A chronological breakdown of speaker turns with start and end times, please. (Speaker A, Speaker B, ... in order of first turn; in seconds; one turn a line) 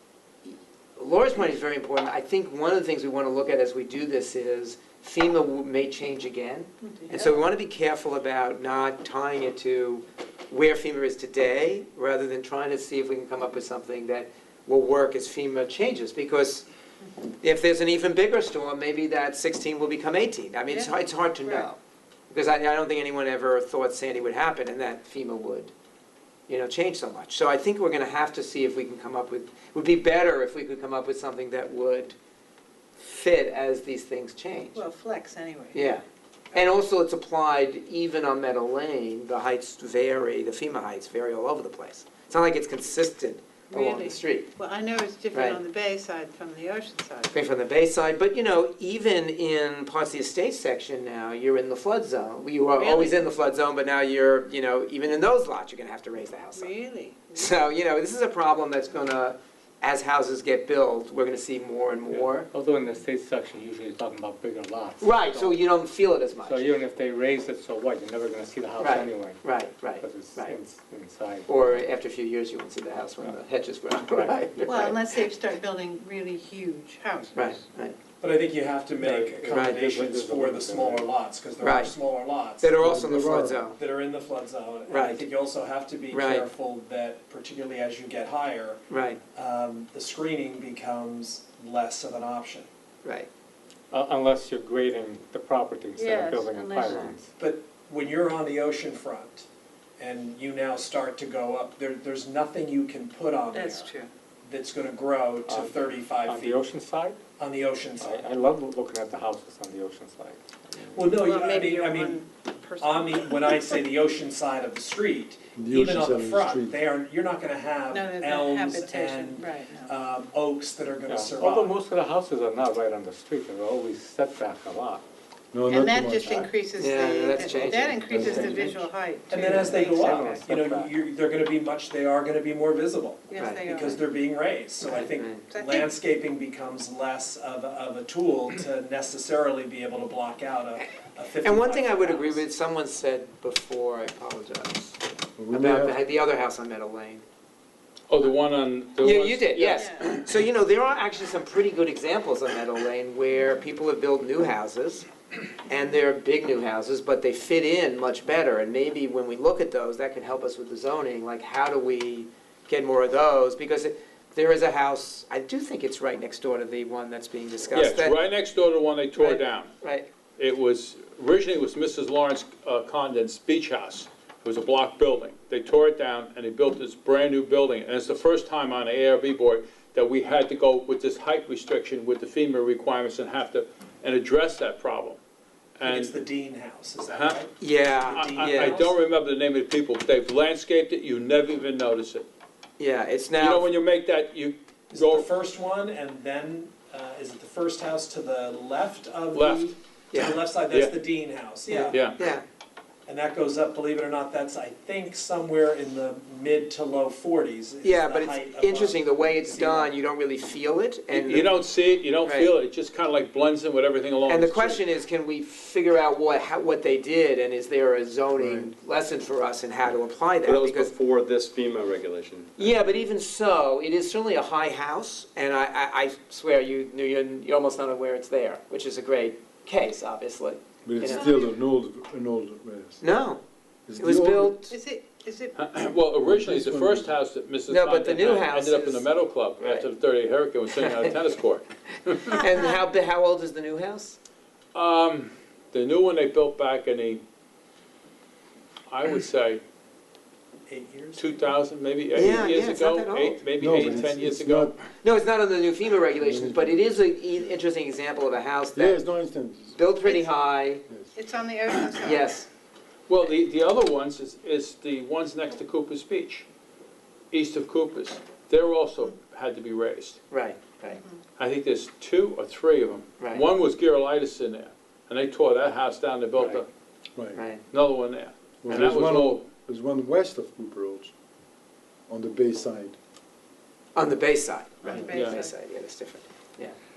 Speaker A: 0.4-16.7
Speaker B: 6.8-7.3
Speaker A: 17.4-21.8
Speaker B: 20.7-21.7
Speaker A: 22.3-25.7
Speaker A: 26.5-32.2
Speaker A: 33.0-34.8
Speaker B: 34.8-35.9
Speaker A: 35.7-44.5
Speaker B: 43.7-47.4
Speaker A: 45.3-45.6
Speaker A: 47.3-56.7
Speaker B: 52.8-53.3
Speaker B: 56.5-57.5
Speaker A: 57.3-62.5
Speaker C: 62.1-65.6
Speaker A: 65.0-66.7
Speaker C: 66.4-69.5
Speaker A: 68.8-70.6
Speaker C: 70.0-71.5
Speaker A: 71.5-75.2
Speaker C: 74.1-74.4
Speaker B: 74.6-77.6
Speaker A: 77.3-78.0
Speaker D: 78.2-82.8
Speaker C: 79.0-81.1
Speaker A: 79.5-79.8
Speaker A: 81.6-81.9
Speaker A: 82.6-83.8
Speaker E: 82.8-83.6
Speaker D: 83.8-88.8
Speaker A: 84.9-85.3
Speaker A: 86.1-86.5
Speaker A: 88.9-89.2
Speaker D: 89.3-92.7
Speaker A: 93.0-93.3
Speaker C: 93.9-97.3
Speaker B: 96.0-97.1
Speaker D: 97.4-99.5
Speaker D: 100.0-103.9
Speaker B: 103.5-104.1
Speaker D: 104.5-106.7
Speaker C: 105.5-107.2
Speaker D: 107.4-108.3
Speaker C: 108.0-111.2
Speaker D: 110.9-112.2
Speaker B: 111.2-113.8
Speaker D: 112.8-121.8
Speaker E: 115.6-116.8
Speaker B: 117.9-119.9
Speaker C: 121.1-125.0
Speaker E: 125.5-126.3
Speaker B: 125.7-130.4
Speaker C: 126.2-126.5
Speaker A: 126.8-128.6
Speaker C: 127.6-128.8
Speaker E: 128.1-128.7
Speaker D: 129.3-142.4
Speaker C: 129.4-130.9
Speaker B: 133.3-134.0
Speaker A: 133.4-133.7
Speaker A: 134.9-135.4
Speaker B: 135.5-135.9
Speaker A: 140.8-145.0
Speaker E: 145.4-146.0
Speaker A: 145.5-147.2
Speaker F: 148.1-150.2
Speaker A: 149.0-155.1
Speaker A: 155.7-168.2
Speaker F: 167.7-169.8
Speaker A: 169.2-170.1
Speaker F: 170.4-185.2
Speaker F: 185.8-186.2
Speaker D: 185.8-189.0
Speaker F: 187.1-187.4
Speaker A: 187.6-188.8
Speaker F: 188.1-192.3
Speaker A: 192.8-193.7
Speaker F: 193.4-195.3
Speaker D: 194.9-202.1
Speaker F: 199.3-199.8
Speaker A: 200.1-200.4
Speaker F: 200.7-201.0
Speaker A: 201.7-202.4
Speaker F: 201.9-202.2
Speaker D: 203.1-210.0
Speaker A: 207.8-211.6
Speaker F: 211.1-214.8
Speaker A: 212.2-212.5
Speaker A: 214.3-220.9
Speaker E: 218.4-218.7
Speaker G: 220.4-222.7
Speaker A: 222.6-231.3
Speaker E: 230.8-233.0
Speaker B: 231.0-231.5
Speaker A: 233.0-233.4
Speaker E: 233.9-234.6
Speaker A: 234.0-234.8
Speaker B: 234.7-235.6
Speaker F: 235.6-242.4
Speaker E: 236.2-237.1
Speaker A: 237.7-239.9
Speaker A: 240.8-241.1
Speaker A: 242.2-244.2
Speaker F: 244.7-247.2
Speaker F: 248.9-249.6
Speaker D: 250.7-251.4
Speaker F: 251.2-254.8
Speaker A: 252.1-254.1
Speaker E: 253.6-254.8
Speaker A: 255.0-259.1
Speaker E: 256.2-257.5
Speaker E: 258.7-259.8
Speaker A: 259.8-260.8
Speaker B: 260.1-260.3
Speaker B: 261.2-262.3
Speaker A: 262.0-262.5
Speaker F: 263.1-266.5
Speaker F: 267.3-270.2
Speaker A: 270.3-271.0
Speaker F: 271.4-276.7
Speaker A: 273.2-273.4
Speaker E: 277.2-277.4
Speaker A: 277.3-277.6
Speaker F: 277.7-279.5
Speaker E: 278.6-281.1
Speaker E: 282.1-283.0
Speaker A: 283.9-286.8
Speaker B: 284.8-285.5
Speaker F: 285.1-285.4